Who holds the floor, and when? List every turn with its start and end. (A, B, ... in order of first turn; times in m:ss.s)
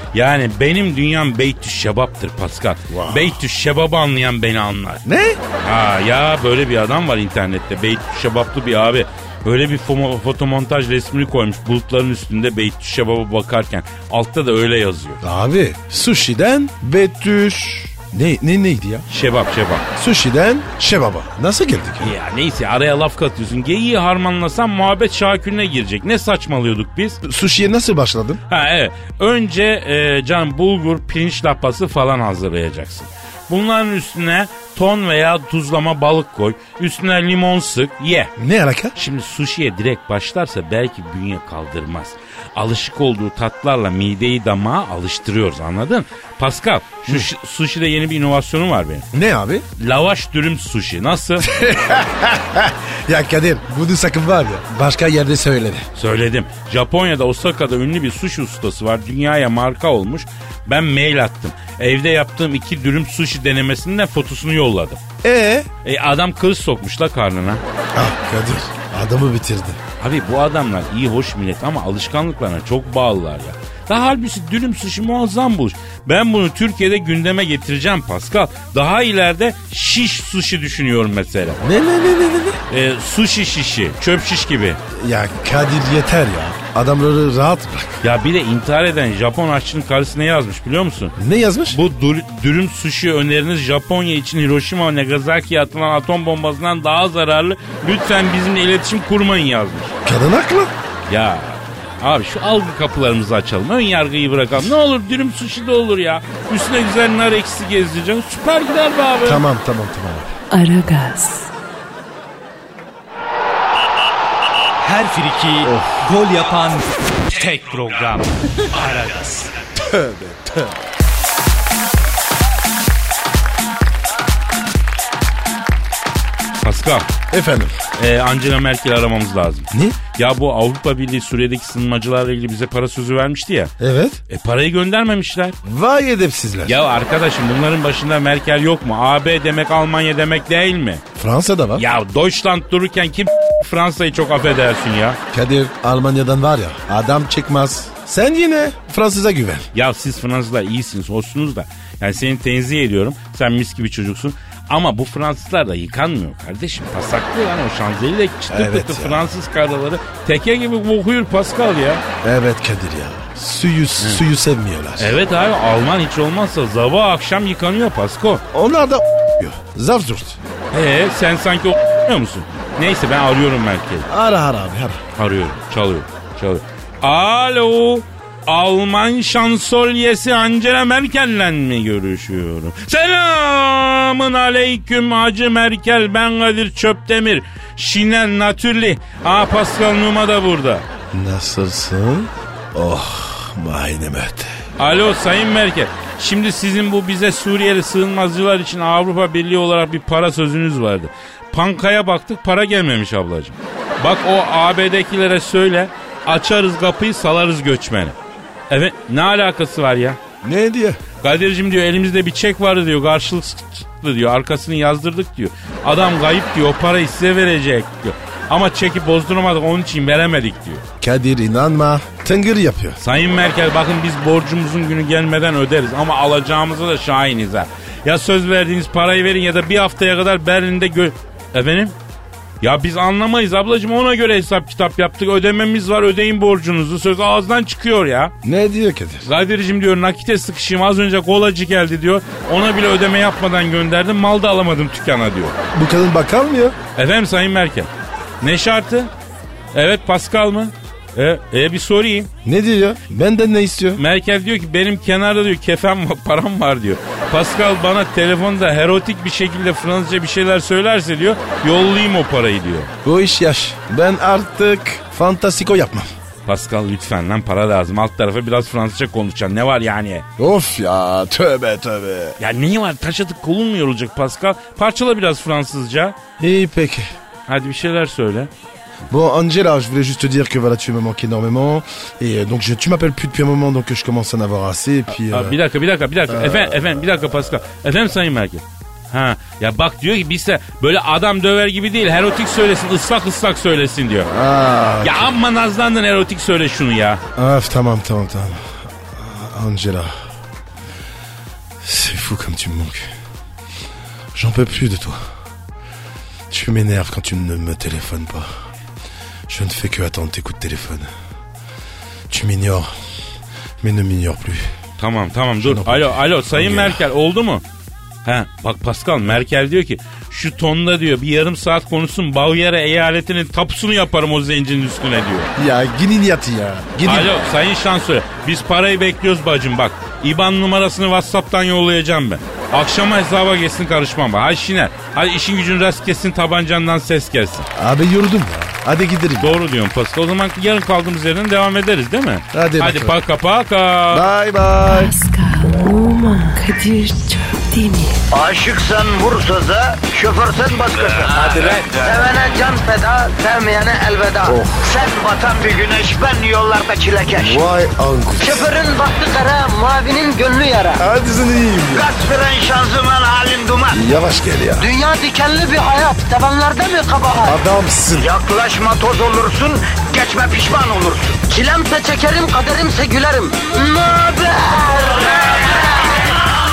0:00.1-0:05.0 A
0:02.9-0:03.4 B
0:05.0-0:05.4 B
0:05.6-0:15.2 A
0:15.2-0:19.0 B
0:19.1-0:19.8 A
0:20.0-0:22.1 B
0:22.0-0:27.2 A
0:27.2-0:28.4 B
0:28.5-0:38.3 A
0:38.4-0:38.9 B
0:39.0-0:49.1 A
0:49.1-0:49.6 B
0:49.8-0:51.5 A
0:51.4-0:55.9 B
0:56.0-1:05.0 A
1:05.2-1:05.7 B
1:05.8-1:07.6 A
1:07.9-1:09.8 B
1:10.0-1:21.6 A
1:21.6-1:22.6 B
1:22.7-1:24.8 A
1:24.9-1:28.0 B
1:28.0-1:31.2 A
1:31.2-1:31.8 B
1:31.7-1:39.9 A
1:40.0-1:40.7 B
1:41.1-1:49.4 A
1:49.2-1:50.4 B
1:50.5-1:51.5 C
1:54.8-1:59.5 D
1:55.6-1:56.0 B
1:59.8-2:00.7 B
2:06.6-2:07.1 A
2:07.3-2:07.8 B
2:08.0-2:13.7 A
2:09.7-2:10.0 B
2:13.8-2:14.2 B
2:14.3-2:15.6 A
2:15.6-2:16.8 B
2:16.6-2:21.0 A
2:21.2-2:21.8 B
2:21.8-2:25.2 A
2:25.3-2:29.7 B
2:29.7-2:42.0 A
2:38.5-2:39.3 B
2:42.2-2:45.2 B
2:45.0-2:48.4 A
2:48.5-2:50.4 B
2:50.7-2:54.0 A
2:54.0-2:55.0 B
2:55.2-3:10.8 A
3:11.1-3:14.6 B
3:14.8-3:28.1 A
3:28.7-3:30.2 A
3:30.4-3:31.0 B
3:31.2-3:40.8 A
3:41.0-3:43.0 B
3:43.0-3:51.9 A
3:52.6-3:58.3 A
3:58.4-3:59.3 B
3:59.2-4:05.5 A
4:05.7-4:06.8 B
4:07.0-4:07.9 A
4:08.4-4:09.1 A
4:09.7-4:12.3 A
4:12.4-4:14.0 B
4:14.0-4:22.9 A
4:23.0-4:26.1 B
4:26.4-4:30.2 A
4:30.4-4:32.4 B
4:32.4-4:36.1 A
4:36.4-4:37.1 B
4:37.5-4:38.5 A
4:39.1-4:45.6 B
4:45.3-4:54.3 A
4:46.3-4:46.7 B
4:54.2-4:55.3 B
4:55.0-4:57.2 A
4:57.4-5:00.2 B
5:01.8-5:03.1 B
5:04.4-5:05.2 B
5:06.5-5:08.5 B
5:09.5-5:11.1 B
5:12.3-5:12.9 B
5:13.8-5:14.6 B
5:15.0-5:17.6 A
5:15.6-5:17.0 B
5:18.2-5:25.5 A
5:25.6-5:27.4 B
5:27.0-5:37.7 A
5:37.7-5:39.6 B
5:39.4-5:44.3 A
5:42.5-5:43.2 B
5:44.1-5:45.1 B
5:44.8-5:48.2 C
5:48.3-5:57.6 E
5:51.2-5:52.1 B
5:54.4-5:54.8 B
5:57.3-5:58.6 B
5:58.4-6:01.0 E
6:01.0-6:02.1 B
6:01.9-6:04.0 E
6:03.9-6:04.9 B
6:04.8-6:07.6 E
6:07.4-6:08.3 B
6:08.1-6:16.3 E